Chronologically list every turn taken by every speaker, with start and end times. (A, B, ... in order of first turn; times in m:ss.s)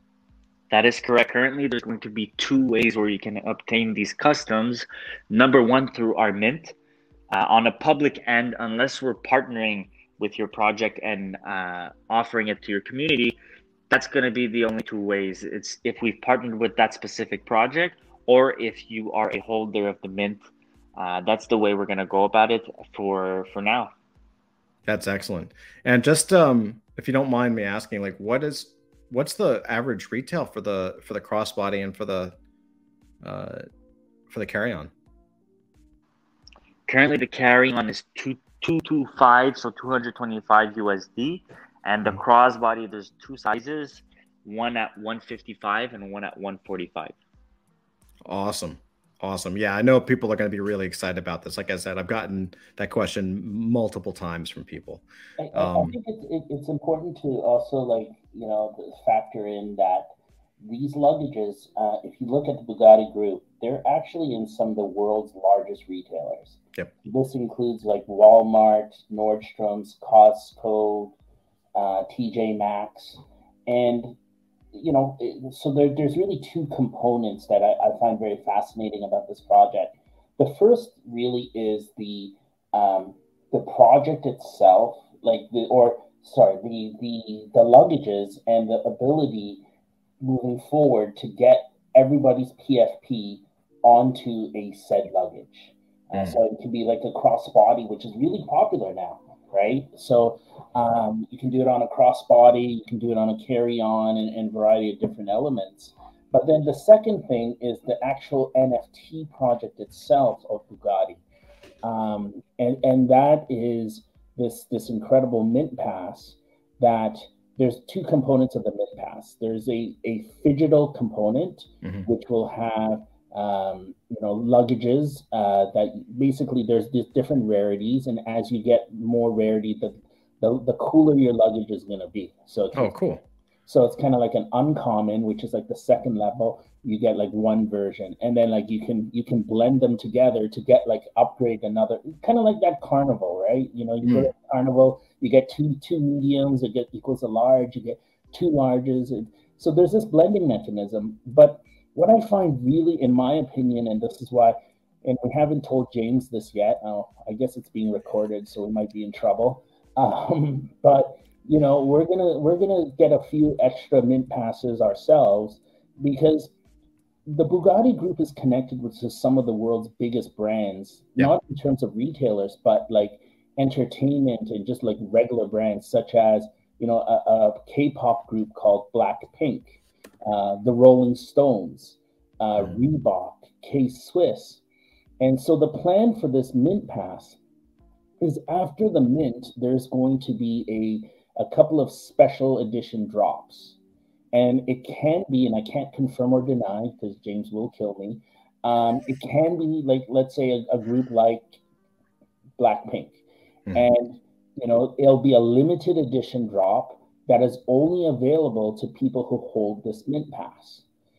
0:00.7-0:06.7 A
0:07.3-0:13.4 A
0:13.9-0:23.9 A
0:24.9-0:32.4 B
0:33.2-0:33.6 B
0:34.3-0:34.9 B
0:36.9-0:47.1 A
0:48.2-0:55.0 B
0:55.4-1:11.2 C
0:55.5-0:56.0 B
1:11.7-1:14.2 C
1:14.7-1:29.6 C
1:30.2-1:51.2 C
1:36.1-1:36.4 B
1:51.8-2:12.9 C
2:12.7-2:13.2 B
2:13.6-2:46.5 C
2:24.0-2:24.3 B
2:47.2-3:04.6 C
3:05.2-3:07.4 C
3:08.2-3:13.8 C
3:14.3-3:21.6 C
3:22.6-3:23.2 C
3:23.7-3:30.8 C